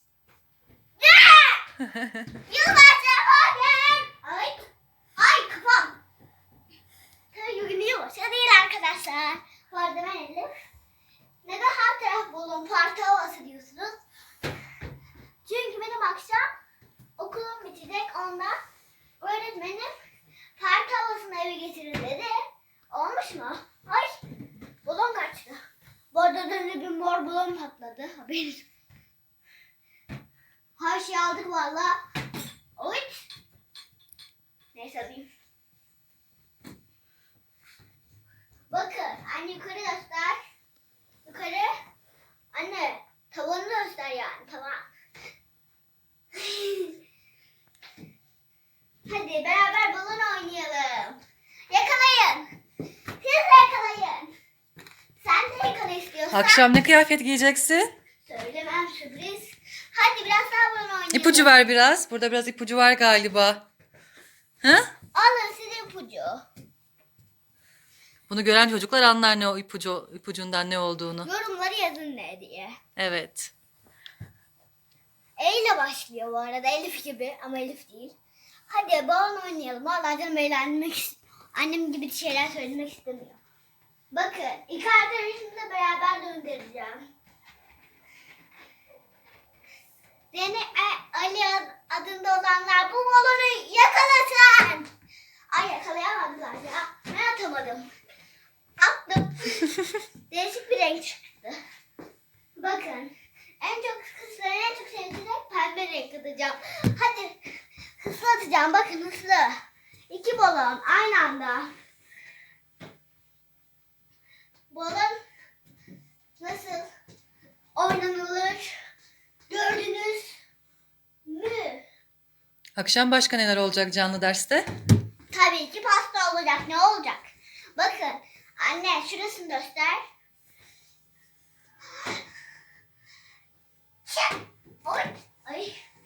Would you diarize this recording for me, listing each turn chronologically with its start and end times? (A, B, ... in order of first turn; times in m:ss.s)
0:01.0-0:01.7 A
0:01.9-0:02.3 B
0:02.5-0:04.6 A
0:05.2-0:06.0 A
0:07.3-0:10.5 A
0:11.4-0:14.0 A
0:15.4-0:16.5 A
0:17.2-0:18.6 A
0:19.2-0:19.9 A
0:20.6-0:22.4 A
0:22.9-0:24.2 A
0:24.8-0:25.6 A
0:26.1-0:28.6 A
0:30.8-0:32.0 A
0:32.8-0:33.3 A
0:34.7-0:35.3 A
0:38.7-0:40.4 A
0:41.2-0:41.7 A
0:42.5-0:44.9 A
0:46.3-0:47.0 A
0:49.0-0:51.2 A
0:51.7-0:52.5 A
0:53.2-0:54.3 A
0:55.2-0:56.7 A
0:56.3-0:57.9 B
0:58.2-1:01.5 A
1:01.1-1:03.6 B
1:04.6-1:04.9 B
1:05.1-1:06.4 A
1:08.3-1:11.3 B
1:11.2-1:12.8 A
1:13.0-1:13.5 B
1:15.4-1:18.2 A
1:18.7-1:23.4 A
1:24.1-1:27.0 A
1:30.3-1:34.9 A
1:35.5-1:37.9 A
1:38.8-1:41.6 A
1:42.6-1:49.6 A
1:50.1-1:51.7 A
1:54.7-1:55.2 A
1:56.4-1:56.9 A
1:57.7-1:58.7 A
1:59.5-2:00.3 A
2:01.2-2:01.8 A
2:02.8-2:04.7 B
2:05.3-2:10.0 A
2:14.1-2:15.8 A